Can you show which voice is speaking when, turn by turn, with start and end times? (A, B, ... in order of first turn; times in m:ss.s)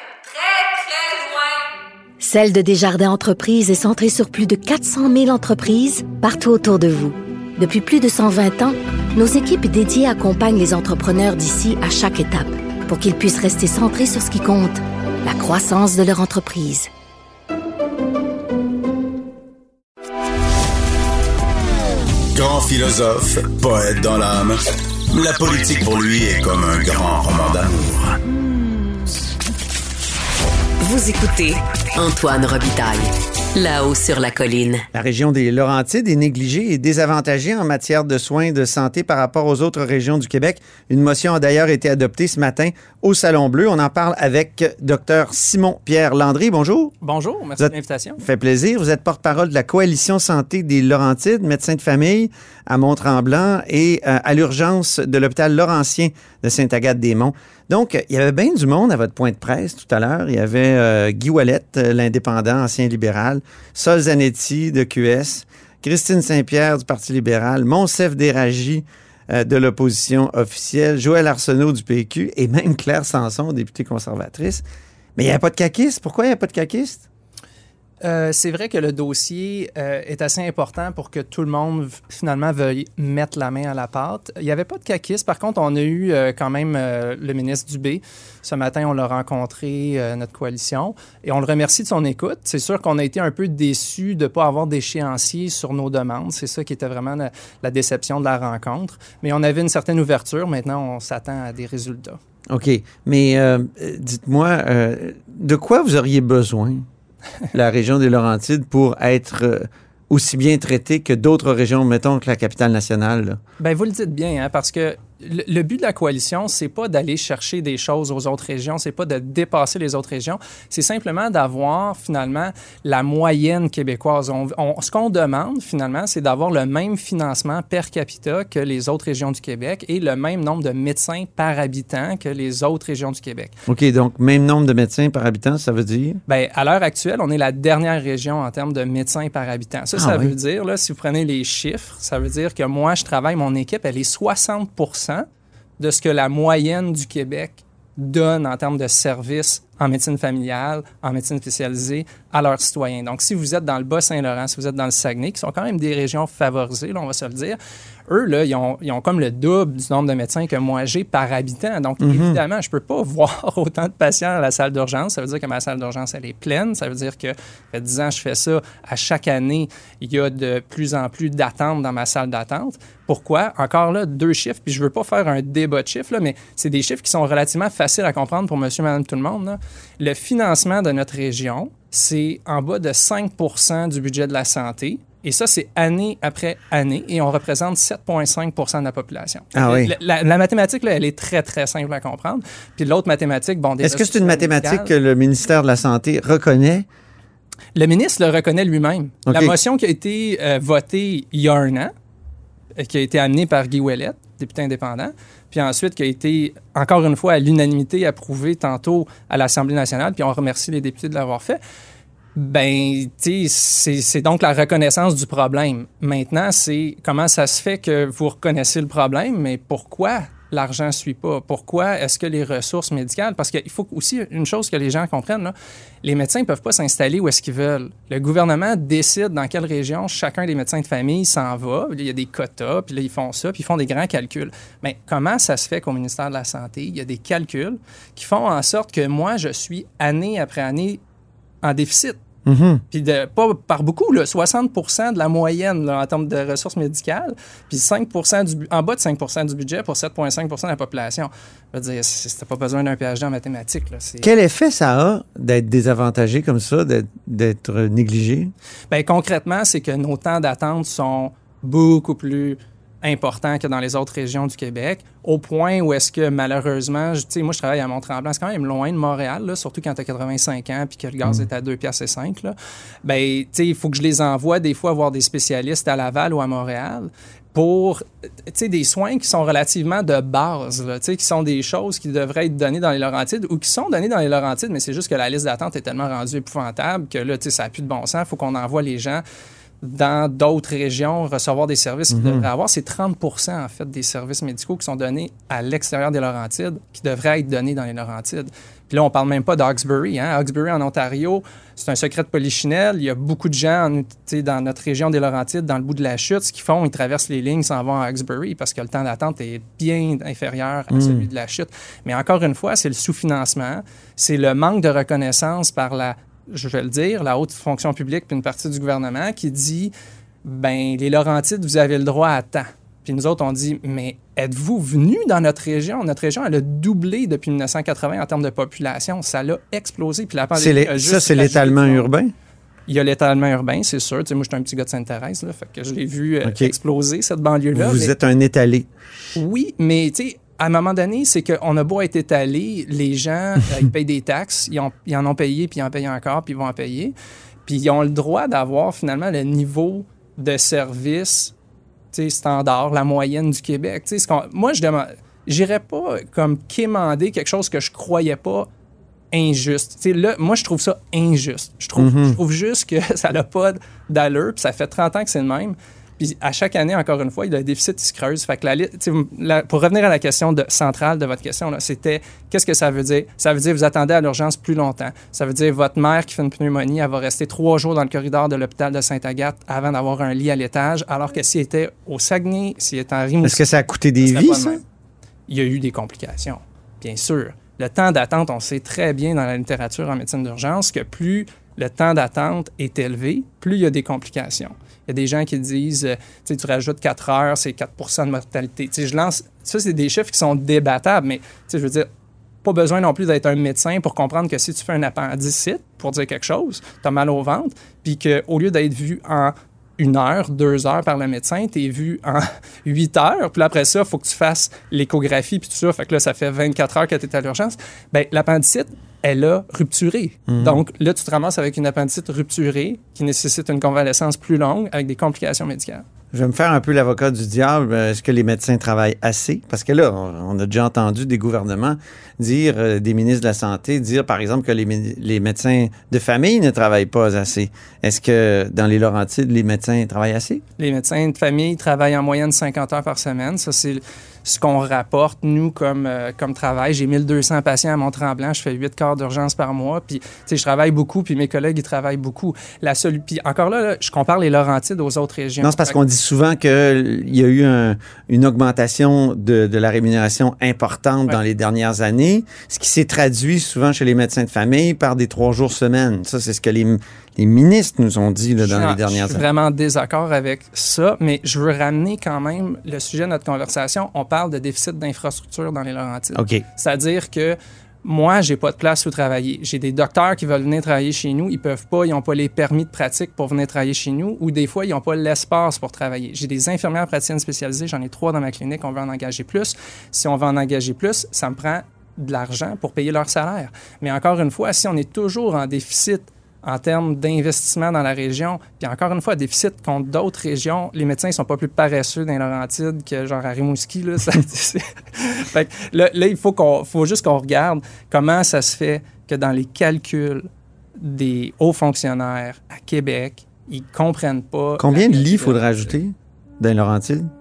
0:02.2-0:16.9 A
0:22.3-0:28.2 B
0:30.8-0:34.8 C
0:34.9-0:46.9 D
0:47.0-0:48.2 E
0:47.6-1:14.6 D
1:15.2-1:17.0 D
1:18.0-1:42.2 E
1:42.5-1:46.8 D
1:47.5-1:53.4 D
1:53.6-2:13.5 E
2:13.7-2:16.2 D
2:16.2-2:25.2 E
2:19.9-2:20.3 D
2:25.8-3:14.9 E
2:42.0-2:42.4 D
3:09.5-3:09.9 D
3:13.8-3:16.8 D
3:17.7-3:21.9 E
3:19.2-3:19.6 D
3:22.8-3:31.6 E
3:32.3-4:01.0 E
4:01.6-4:02.2 E
4:02.4-4:02.8 D
4:02.9-4:14.3 E
4:14.2-4:18.5 D
4:18.9-4:49.2 E
4:49.8-5:19.9 E
4:52.1-4:52.5 D
5:10.9-5:11.3 D
5:20.4-5:32.1 E
5:30.5-5:32.3 D
5:32.9-5:38.2 E
5:36.4-5:36.7 D
5:37.7-5:38.9 D
5:39.3-5:47.1 E
5:47.6-5:51.5 E
5:52.1-5:58.7 E
5:59.3-6:23.6 E
6:02.0-6:02.4 D
6:23.4-6:24.8 D
6:24.2-6:24.8 E
6:25.5-6:42.1 E
6:42.6-7:06.0 E
7:00.5-7:00.8 D
7:06.3-7:20.6 D
7:20.8-7:36.0 E
7:35.6-7:49.4 D
7:48.6-8:35.9 E
7:56.3-7:56.6 D
8:34.8-8:37.3 D